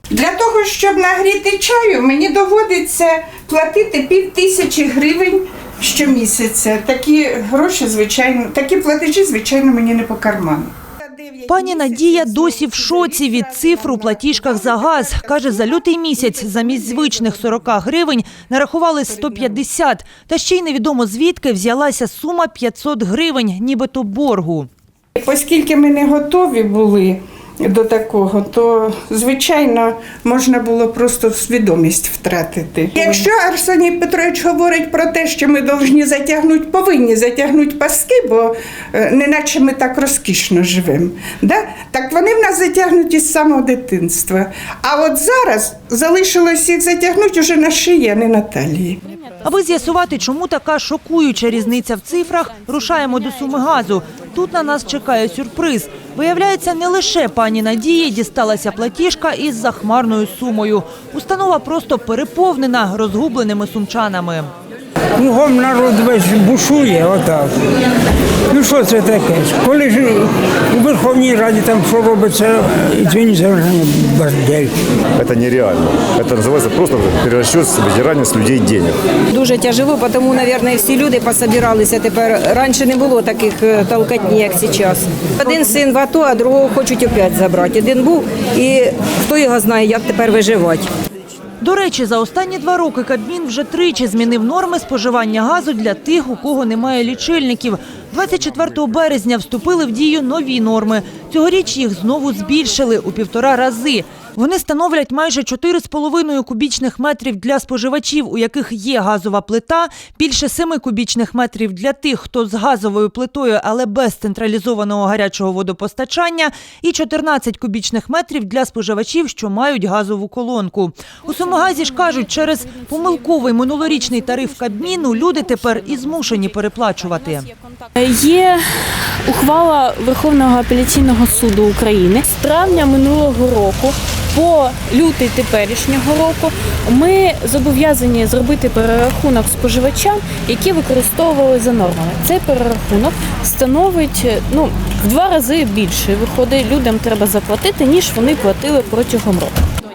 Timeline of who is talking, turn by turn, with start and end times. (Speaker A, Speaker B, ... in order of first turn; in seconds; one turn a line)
Speaker A: 0.1-17.3
Speaker B: 11.5-24.7
Speaker A: 19.1-19.6
Speaker A: 25.2-49.0
Speaker B: 49.4-64.5
Speaker C: 65.2-67.5
Speaker C: 68.5-74.7
Speaker D: 75.2-79.0
Speaker E: 79.3-90.9
Speaker B: 91.6-127.5
Speaker F: 128.0-149.5